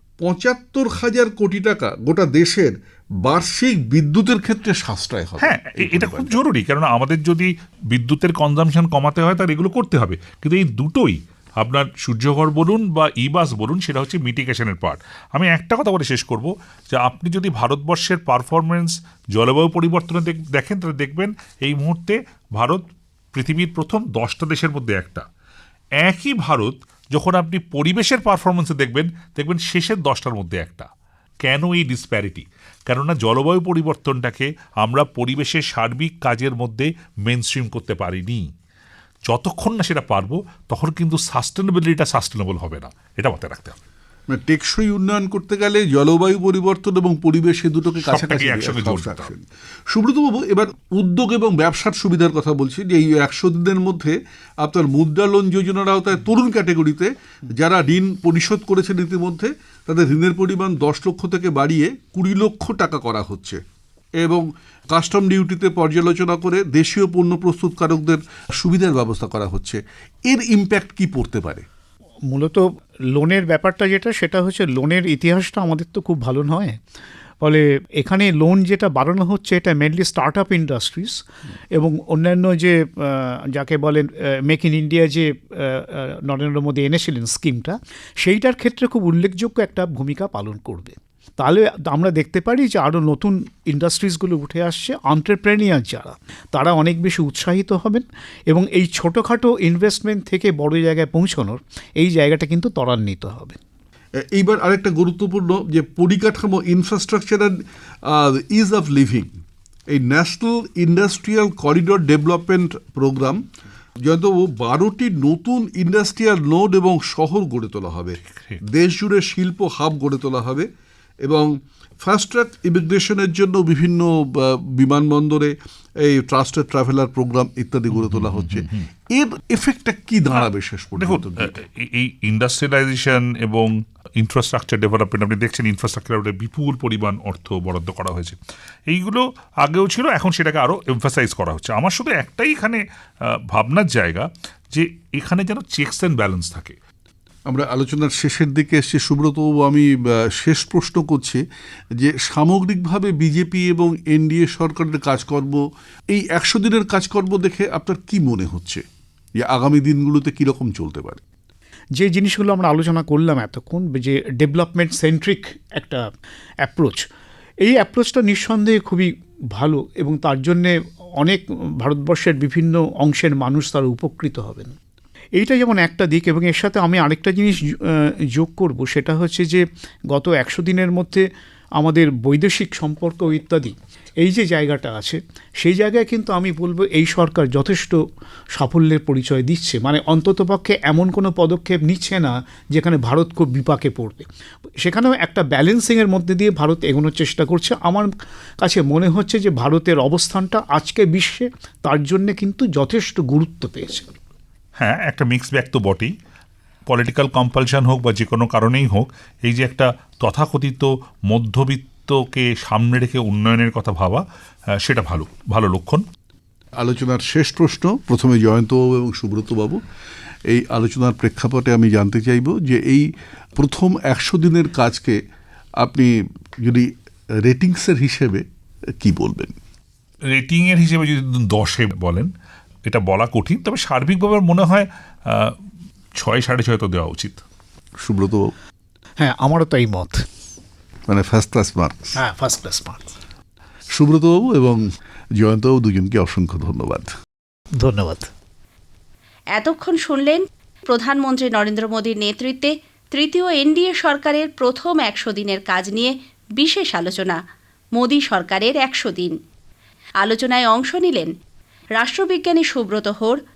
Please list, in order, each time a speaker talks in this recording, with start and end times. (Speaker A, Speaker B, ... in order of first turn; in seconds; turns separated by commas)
Speaker A: 0.2-6.4, Speaker B: 5.4-22.8, Speaker B: 23.3-25.3, Speaker B: 26.0-30.9, Speaker B: 31.4-38.5, Speaker B: 39.3-43.8, Speaker A: 44.3-63.6, Speaker B: 48.0-49.3, Speaker A: 64.2-71.7, Speaker C: 72.3-76.8, Speaker C: 77.4-81.2, Speaker C: 81.8-103.6, Speaker A: 104.2-113.5, Speaker A: 114.0-120.7, Speaker B: 118.3-118.6, Speaker A: 121.2-131.6, Speaker B: 128.0-128.9, Speaker B: 131.0-138.4, Speaker B: 138.9-142.8, Speaker B: 143.5-146.8, Speaker A: 147.5-151.4, Speaker A: 152.0-158.8, Speaker A: 159.4-161.2, Speaker C: 162.0-166.1, Speaker C: 166.6-167.1, Speaker C: 167.6-174.8, Speaker C: 175.4-181.2, Speaker C: 181.8-188.0, Speaker C: 188.5-194.3, Speaker C: 194.8-198.1, Speaker C: 198.6-204.2, Speaker B: 204.8-206.1, Speaker B: 206.9-214.2, Speaker B: 214.8-216.0, Speaker A: 216.8-219.8, Speaker A: 220.5-225.2, Speaker A: 225.8-228.4, Speaker A: 229.0-229.6, Speaker B: 230.3-232.3, Speaker B: 232.9-235.6, Speaker B: 236.2-237.4, Speaker A: 238.0-238.5, Speaker C: 239.2-240.2, Speaker A: 241.1-242.2, Speaker C: 242.2-243.1, Speaker A: 243.9-244.8, Speaker A: 245.4-247.2, Speaker C: 247.8-248.3, Speaker D: 249.5-257.4, Speaker D: 257.9-259.4, Speaker D: 260.2-261.3, Speaker D: 262.0-263.4